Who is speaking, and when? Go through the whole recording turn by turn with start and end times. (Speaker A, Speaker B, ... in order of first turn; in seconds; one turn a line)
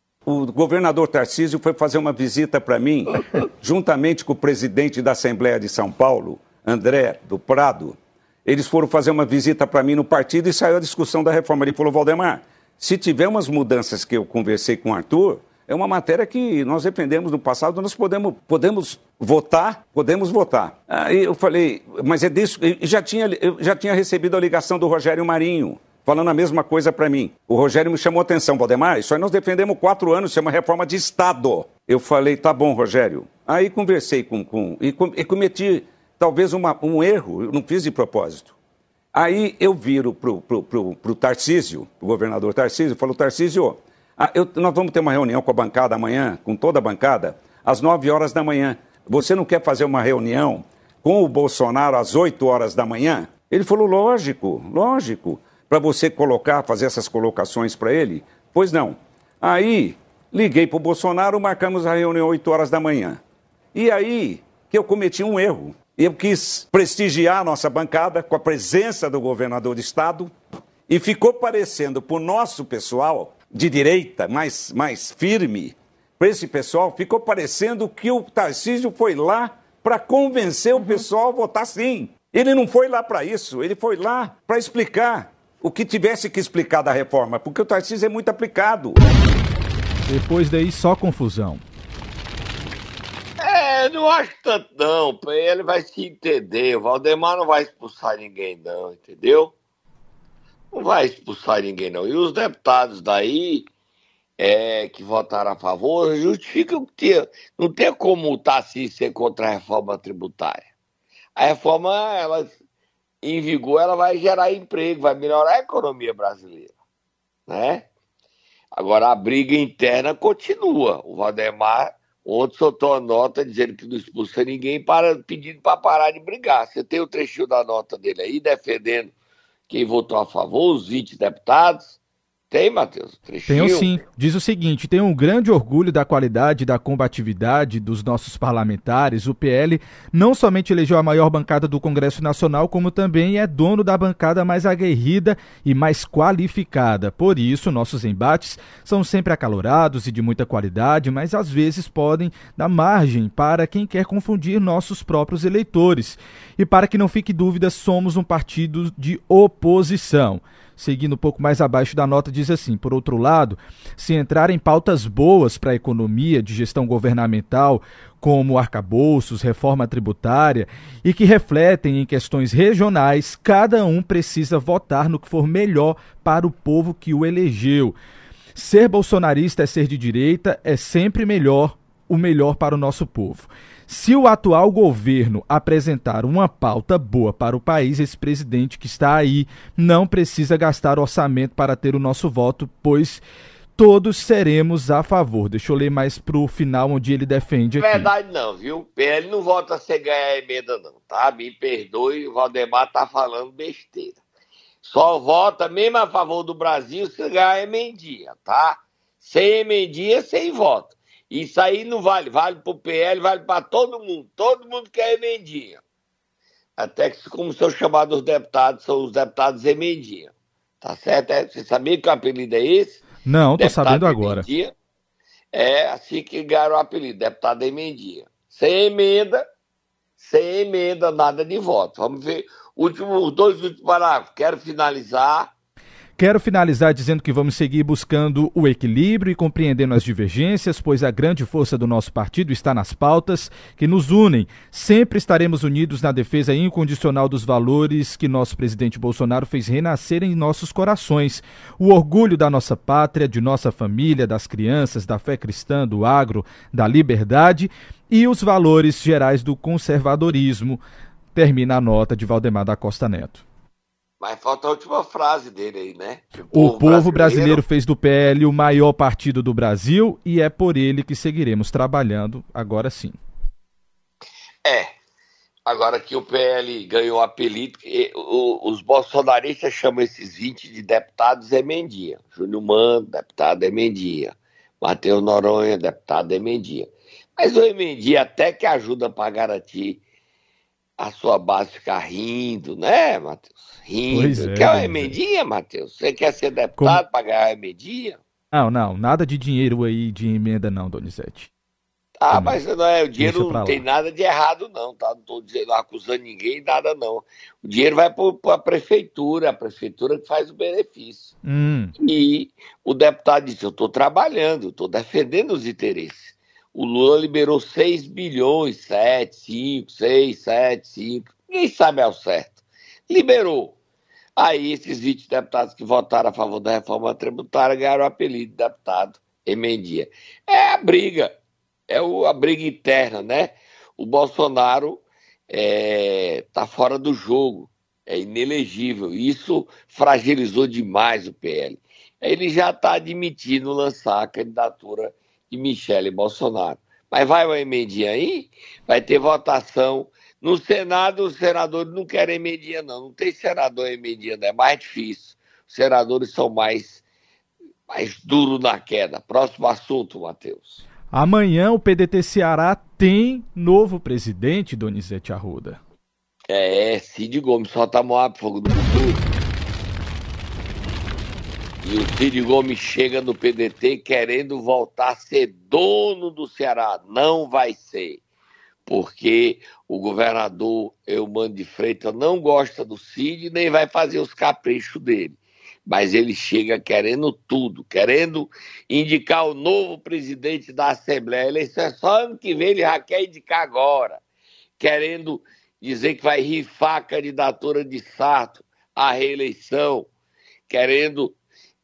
Speaker A: 0.2-38.5
Speaker A: 39.1-63.2
Speaker A: 63.7-70.3
Speaker A: 70.9-89.0
Speaker B: 90.1-91.6
Speaker C: 93.4-99.5
Speaker C: 100.7-103.7
Speaker C: 104.4-110.7
Speaker C: 111.3-112.6
Speaker C: 113.2-116.7
Speaker C: 117.5-117.8
Speaker C: 118.7-129.1
Speaker C: 129.7-132.0
Speaker C: 132.5-134.0
Speaker B: 133.5-177.9
Speaker B: 178.5-193.2
Speaker B: 193.8-198.1
Speaker C: 197.8-204.2
Speaker C: 204.8-215.8
Speaker C: 216.8-223.0
Speaker B: 223.2-224.4
Speaker C: 223.6-224.7
Speaker C: 225.5-229.4
Speaker C: 230.2-235.5
Speaker B: 236.2-260.8
Speaker B: 261.3-263.4
Speaker C: 264.2-267.6
Speaker B: 266.5-273.2
Speaker C: 274.6-274.9
Speaker C: 275.6-290.0
Speaker C: 291.0-298.2
Speaker B: 294.1-295.1
Speaker B: 298.5-301.5
Speaker C: 302.2-311.3
Speaker B: 302.3-302.6
Speaker B: 303.2-303.8
Speaker B: 311.4-311.9
Speaker C: 312.0-323.8
Speaker C: 324.4-331.3
Speaker C: 331.9-357.0
Speaker C: 357.9-360.8
Speaker B: 361.1-365.8
Speaker C: 366.5-369.2
Speaker C: 371.8-378.2
Speaker C: 378.9-394.2
Speaker C: 394.8-400.1
Speaker C: 400.7-401.4